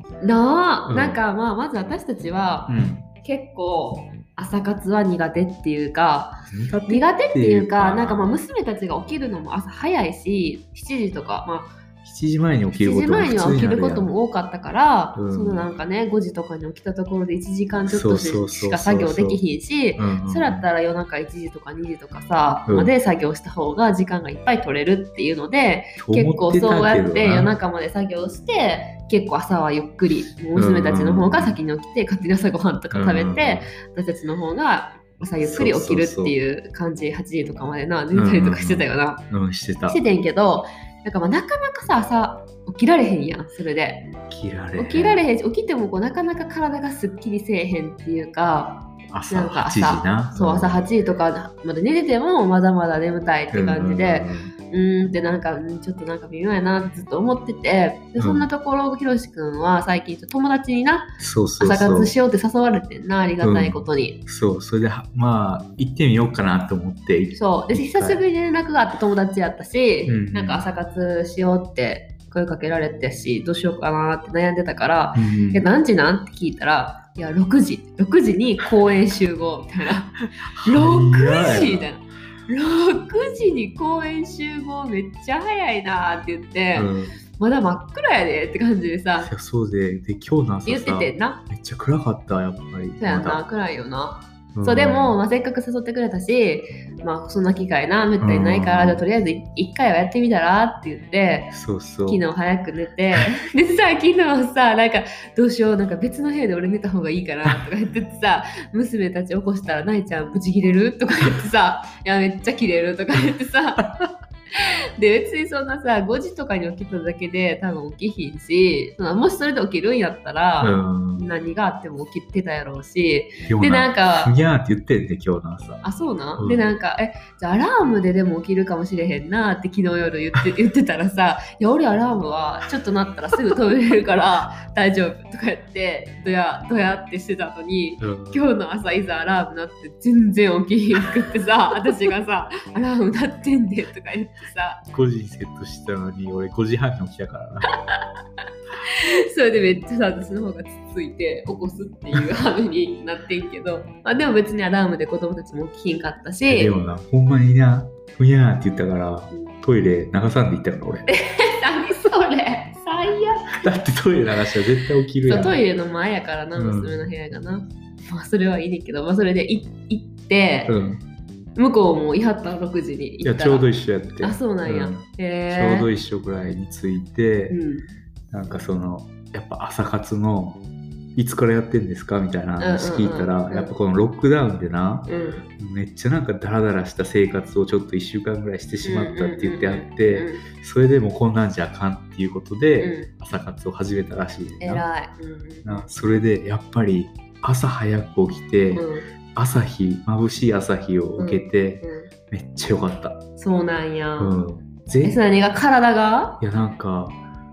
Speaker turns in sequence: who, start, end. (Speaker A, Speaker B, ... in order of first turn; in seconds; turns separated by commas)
Speaker A: 0.2-11.7, Speaker B: 0.9-1.2, Speaker B: 2.7-3.1, Speaker B: 6.5-8.4, Speaker B: 12.0-14.1, Speaker A: 12.7-39.2, Speaker B: 15.2-15.7, Speaker B: 17.9-19.4, Speaker B: 19.9-20.6, Speaker B: 26.0-27.5, Speaker B: 30.5-31.6, Speaker B: 32.9-33.7, Speaker B: 35.4-36.3, Speaker B: 38.1-40.0, Speaker A: 39.9-44.1, Speaker B: 44.3-45.2, Speaker A: 44.8-64.2, Speaker B: 49.1-50.8, Speaker B: 53.5-54.5, Speaker B: 58.2-58.5, Speaker B: 61.2-62.1, Speaker B: 63.4-68.2, Speaker A: 67.3-89.3, Speaker B: 70.0-70.6, Speaker B: 75.1-75.7, Speaker B: 80.4-81.9, Speaker B: 86.7-87.1, Speaker B: 89.2-93.4, Speaker A: 90.7-91.4, Speaker A: 93.0-101.5, Speaker B: 94.5-95.2, Speaker B: 98.2-99.0, Speaker B: 101.5-102.2, Speaker A: 102.0-113.9, Speaker A: 114.5-124.3, Speaker B: 120.6-121.3, Speaker B: 123.5-125.8, Speaker A: 125.8-144.8, Speaker B: 126.4-126.7, Speaker B: 138.0-138.4, Speaker B: 144.8-147.7, Speaker A: 148.8-156.8, Speaker B: 156.4-161.1, Speaker A: 161.1-163.7, Speaker B: 163.5-165.6, Speaker A: 165.2-170.7, Speaker B: 166.5-167.1, Speaker B: 170.7-171.0, Speaker A: 171.6-175.9, Speaker B: 173.2-177.6, Speaker A: 177.5-177.9, Speaker B: 178.3-180.6, Speaker B: 181.2-194.8, Speaker A: 182.6-183.7, Speaker A: 185.1-185.4, Speaker A: 188.8-190.4, Speaker A: 192.8-193.1, Speaker A: 194.6-195.9, Speaker B: 195.6-203.2, Speaker A: 198.8-199.1, Speaker A: 201.2-202.1, Speaker A: 203.4-204.4, Speaker B: 204.2-205.2, Speaker A: 205.0-206.4, Speaker B: 206.4-207.2